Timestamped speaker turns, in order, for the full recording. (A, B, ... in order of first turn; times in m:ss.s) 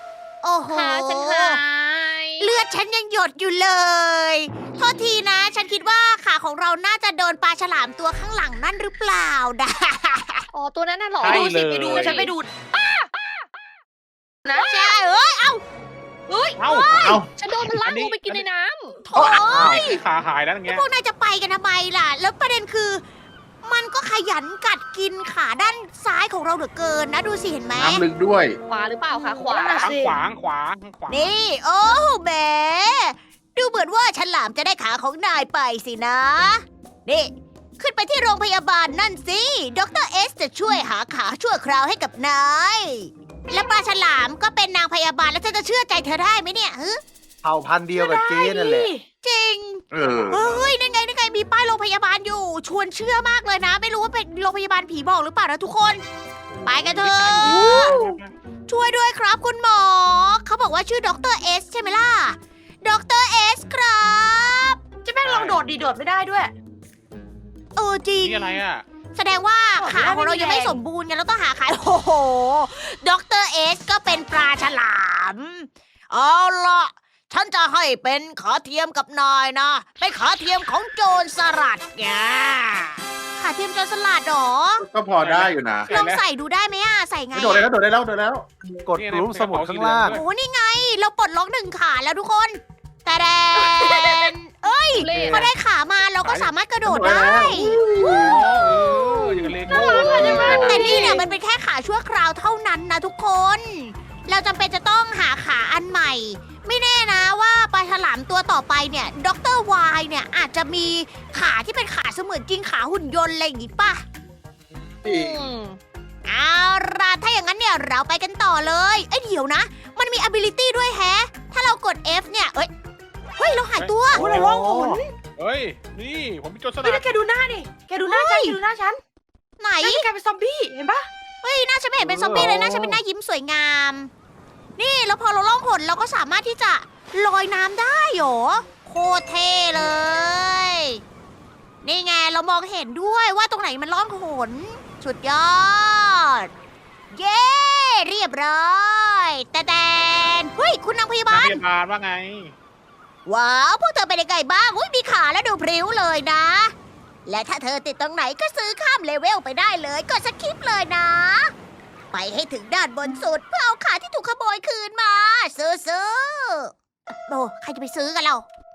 0:00.4-0:01.6 A
0:00.7-0:02.5 B
0:02.4-0:10.4 A
0:10.5-0:13.4 B
0:11.2-0:12.3 C
0:11.2-0:12.5 D
0:14.4-0:14.9 D
0:14.5-0:15.6 A
0:16.3-0:17.2 D
0:16.6-0:18.4 C
0:16.9-0:17.3 E
0:17.3-0:19.0 B
0:19.0-0:20.0 A
0:19.2-0:19.4 E
0:19.4-0:20.8 C
0:19.5-0:19.8 F
0:20.6-0:23.0 A
0:23.6-0:28.0 A
0:27.7-0:28.6 E
0:28.7-0:29.9 B
0:29.2-0:30.2 D
0:29.8-0:31.3 C
0:31.1-0:47.0 A
0:47.4-0:48.9 F
0:47.9-0:49.0 D
0:49.2-0:56.0 A
0:49.9-0:50.4 E
0:50.1-0:50.6 C
0:56.5-0:58.3 C
0:56.6-0:58.0 A
0:57.4-0:58.2 D
0:58.7-1:04.8 A
1:05.0-1:06.5 D
1:05.2-1:05.6 C
1:07.8-1:08.6 A
1:08.2-1:08.8 C
1:09.2-1:24.8 A
1:09.8-1:10.8 D
1:24.8-1:25.9 E
1:25.2-1:26.2 C
1:25.9-1:27.7 A
1:27.3-1:28.5 E
1:28.8-1:30.2 F
1:29.0-1:30.2 C
1:30.1-1:37.8 A
1:33.6-1:34.3 D
1:34.9-1:35.5 B
1:35.0-1:35.5 C
1:36.2-1:36.5 C
1:36.8-1:38.7 E
1:38.0-1:40.8 C
1:39.6-1:40.9 E
1:39.7-1:41.2 D
1:40.1-1:54.0 A
1:55.0-1:55.5 E
1:55.1-1:55.8 B
1:56.2-2:02.7 A
2:03.4-2:05.1 A
2:03.7-2:04.5 C
2:04.1-2:05.0 F
2:05.4-2:07.1 C
2:06.8-2:09.0 D
2:08.0-2:08.6 A
2:09.6-2:10.0 A
2:09.8-2:11.1 D
2:11.4-2:14.1 A
2:12.0-2:13.0 F
2:14.8-2:21.0 A
2:21.8-2:26.5 A
2:27.1-2:31.6 A
2:31.3-2:32.5 C
2:33.2-2:36.7 A
2:37.2-2:41.5 A
2:42.1-2:46.7 A
2:47.3-2:48.4 A